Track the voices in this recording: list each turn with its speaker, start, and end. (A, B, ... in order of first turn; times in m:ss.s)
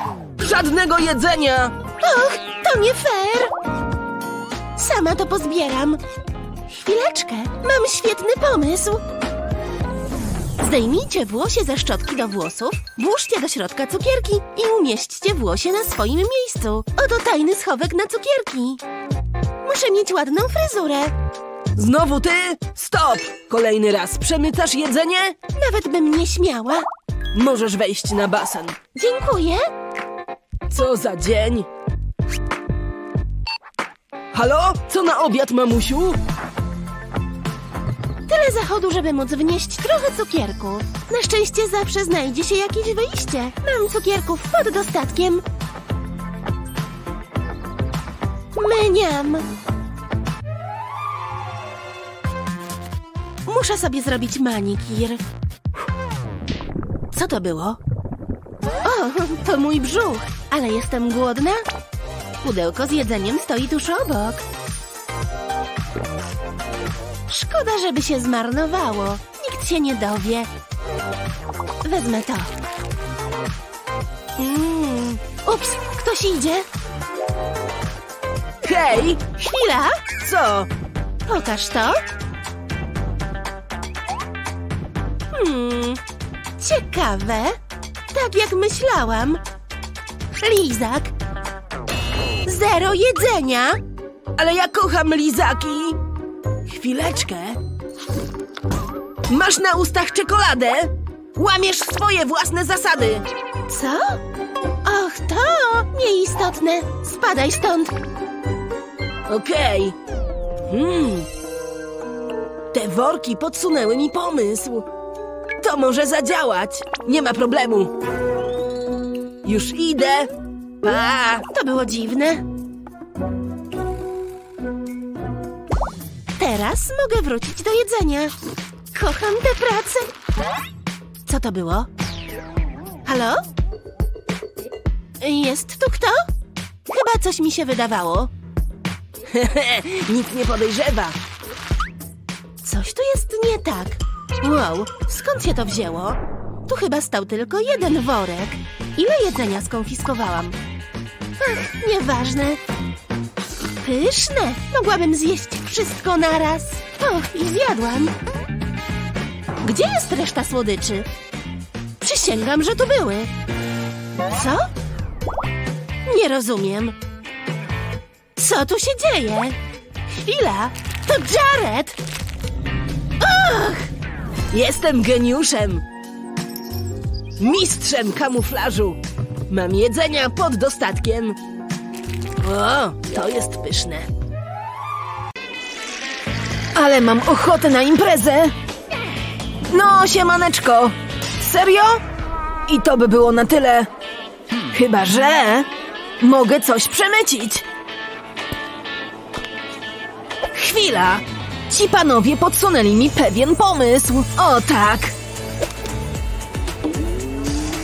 0:00.4-0:01.8 A
0:02.0-0:03.5 B
0:04.8-0:06.0 B
0:06.7-0:09.0 B
0:10.6-0:18.8 B
0:19.6-0:21.1 B
0:21.8-0:25.4 A
0:25.6-0:26.9 B
0:27.3-0:28.8 A
0:28.9-0:29.7 B
0:30.7-0:31.7 A
0:34.3-0:36.2 A
0:38.3-0:45.4 B
0:48.5-0:49.5 B
0:53.5-0:55.2 B
0:57.1-0:57.8 B
0:58.8-1:01.6 B
1:02.4-1:04.4 B
1:07.3-1:10.5 B
1:11.8-1:12.5 B
1:14.4-1:15.2 A
1:15.3-1:16.7 B
1:18.6-1:19.2 A
1:19.3-1:20.1 B
1:20.2-1:20.7 A
1:21.3-1:22.0 B
1:25.4-1:26.0 A
1:25.6-1:25.8 B
1:26.6-1:27.6 B
1:28.1-1:29.4 B
1:30.4-1:31.1 B
1:32.4-1:33.8 B
1:34.4-1:36.0 A
1:36.7-1:37.6 A
1:39.3-1:43.2 A
1:43.7-1:44.2 B
1:44.8-1:48.0 B
1:49.3-1:50.0 A
1:50.7-1:51.3 A
1:52.7-1:54.9 A
1:55.6-1:57.9 A
1:59.4-2:00.3 A
2:00.8-2:01.4 A
2:01.3-2:02.4 B
2:06.4-2:08.3 B
2:08.9-2:10.1 B
2:11.3-2:11.9 B
2:13.0-2:13.4 B
2:15.2-2:16.3 B
2:16.9-2:18.3 B
2:19.3-2:21.2 A
2:22.6-2:30.6 B
2:31.4-2:32.6 B
2:33.8-2:38.2 B
2:39.6-2:41.1 B
2:42.0-2:43.3 B
2:44.3-2:44.7 B
2:46.1-2:47.0 B
2:48.4-2:49.6 B
2:50.1-2:52.0 B
2:53.2-2:53.9 B
2:54.5-2:55.8 A
2:57.4-3:01.4 A
3:02.4-3:04.1 A
3:06.8-3:08.5 A
3:09.7-3:12.0 A
3:12.7-3:13.9 A
3:14.7-3:15.7 A
3:16.2-3:17.6 A
3:20.6-3:25.1 A